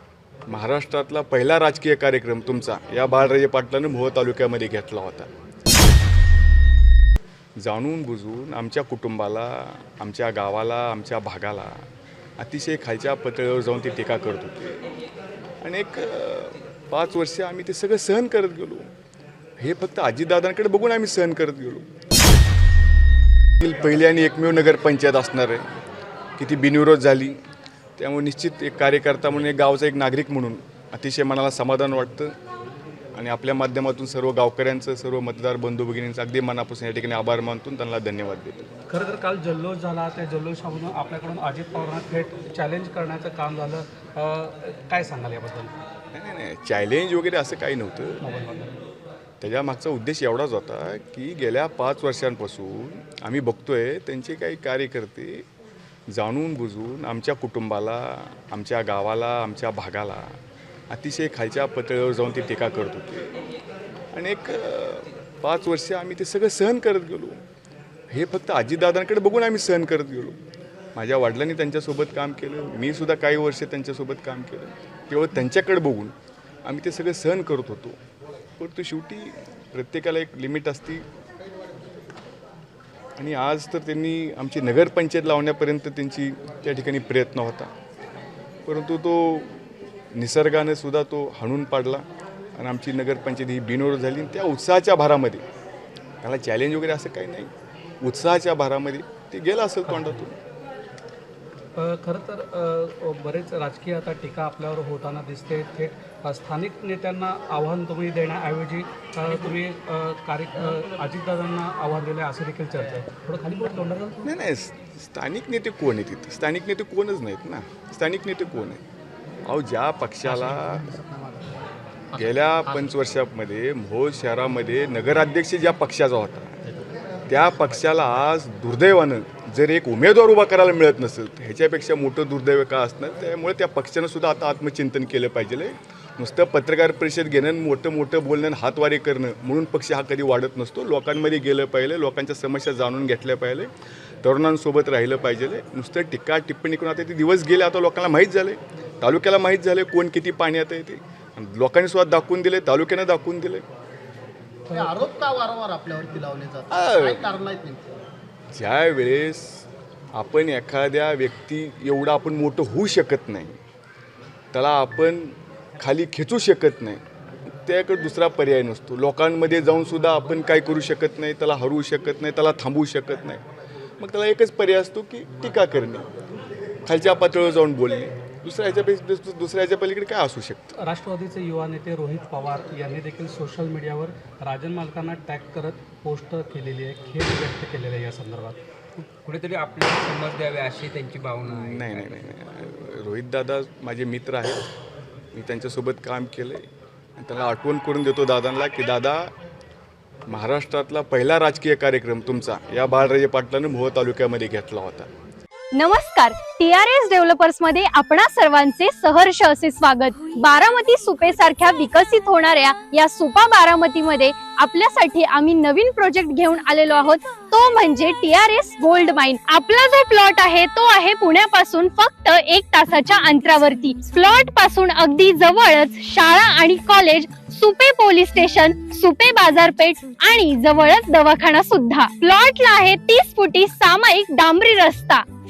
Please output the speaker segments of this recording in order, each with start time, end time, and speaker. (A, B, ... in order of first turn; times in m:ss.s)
0:00.5-0:05.3 A
0:07.6-0:11.8 A
0:12.4-0:14.8 A
0:15.6-0:18.9 A
0:19.6-0:21.8 A
0:23.6-0:25.6 A
0:26.4-0:27.4 A
0:28.0-0:32.3 A
0:33.2-0:38.7 A
0:38.9-0:45.8 B
0:46.1-0:48.2 A
0:48.2-0:48.8 B
0:49.4-0:55.4 A
0:56.1-1:00.3 A
1:00.9-1:03.3 A
1:04.1-1:07.4 A
1:08.1-1:10.4 A
1:11.0-1:16.1 A
1:16.6-1:18.0 A
1:18.6-1:21.0 A
1:23.2-1:27.7 A
1:28.7-1:29.5 A
1:30.1-1:32.1 A
1:32.6-1:35.4 A
1:36.2-1:37.5 A
1:38.0-1:40.4 A
1:39.9-1:40.3 B
1:41.8-1:54.3 B
1:54.2-1:58.8 A
1:59.5-2:00.9 A
2:00.4-2:01.1 B
2:01.1-2:01.4 C
2:02.1-2:06.6 A
2:07.3-2:23.7 A
2:24.2-2:33.6 A
2:34.7-2:37.9 C
2:36.7-2:37.3 A
2:38.5-2:43.6 A
2:44.5-2:53.4 A
2:54.0-2:56.1 A
2:56.8-3:00.7 A
3:00.8-3:08.6 B
3:09.0-3:12.4 D
3:11.4-3:14.6 A
3:15.3-3:16.6 A
3:17.2-3:19.3 A
3:20.3-3:25.1 A
3:25.8-3:55.2 E